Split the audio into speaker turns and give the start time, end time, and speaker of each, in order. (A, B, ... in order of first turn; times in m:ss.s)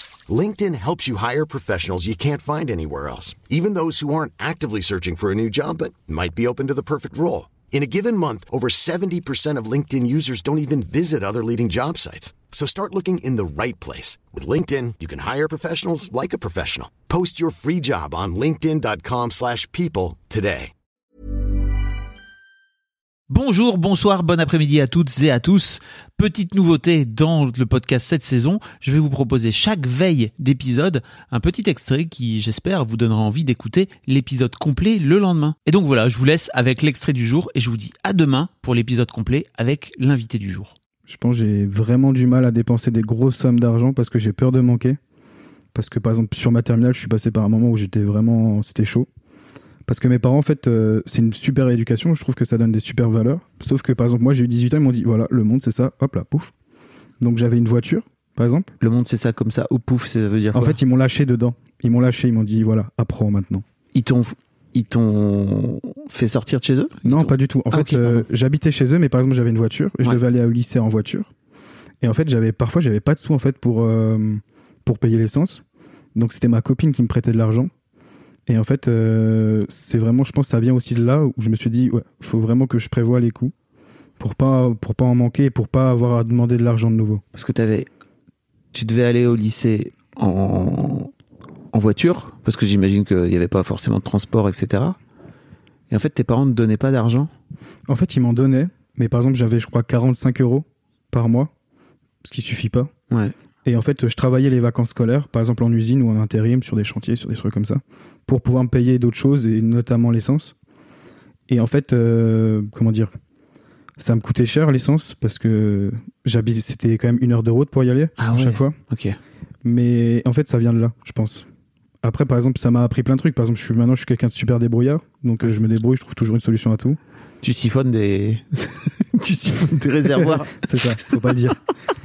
0:00.3-0:20.7 A
0:23.3-0:40.7 B
0:41.1-0:45.0 C
0:45.7-0:49.1 C
0:49.9-0:56.5 C
0:57.2-0:58.7 C
0:58.8-1:00.8 B
1:00.5-1:03.6 C
1:03.9-1:08.2 B
1:07.0-1:11.3 C
1:12.0-1:15.6 C
1:16.1-1:17.7 C
1:18.5-1:23.5 C
1:24.2-1:27.2 C
1:27.3-1:27.9 B
1:28.7-1:31.1 B
1:31.7-1:35.0 B
1:35.9-1:37.3 B
1:37.9-1:41.5 C
1:42.2-1:42.9 C
1:43.6-1:50.5 C
1:51.5-1:53.1 C
1:54.0-1:58.8 C
1:58.2-1:59.2 B
1:59.6-2:01.4 C
2:02.0-2:07.0 C
2:07.4-2:11.2 B
2:10.2-2:11.6 C